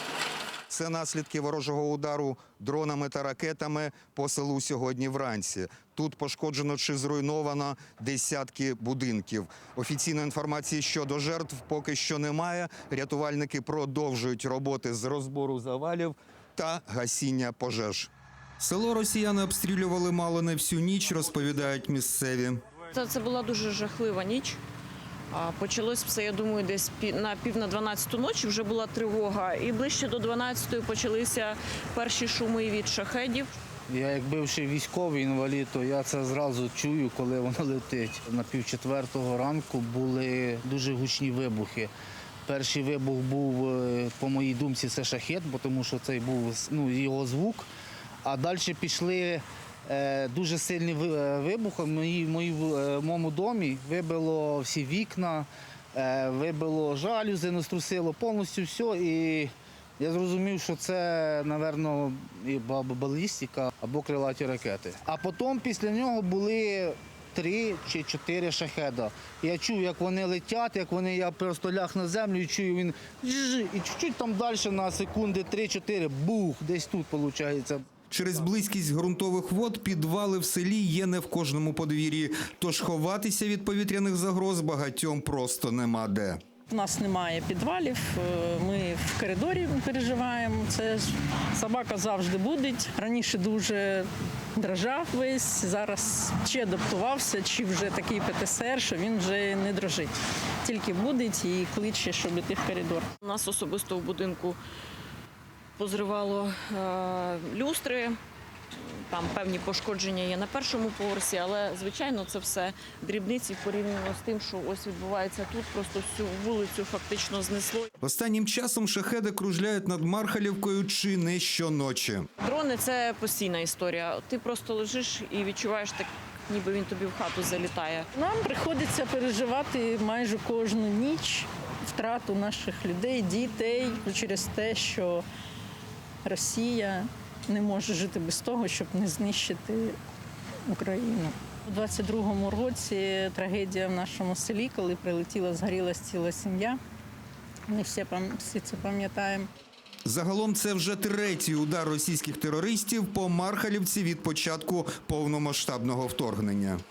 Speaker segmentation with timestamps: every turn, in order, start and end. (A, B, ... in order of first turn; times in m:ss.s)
0:00.7-0:22.6 A
0:22.9-0:24.6 B
0:25.3-0:33.5 B
0:33.9-0:41.9 C
0:42.5-0:47.7 C
0:48.2-1:17.8 C
1:18.1-1:26.4 A
1:26.7-1:40.1 D
1:40.6-1:43.1 D
1:43.2-1:44.6 B
1:45.8-1:48.1 B
1:49.1-1:57.8 B
1:58.0-2:02.2 A
2:02.4-2:08.0 B
2:08.1-2:15.2 D
2:16.2-2:20.0 D
2:20.7-2:26.8 D
2:27.7-2:29.5 D
2:30.0-2:36.8 A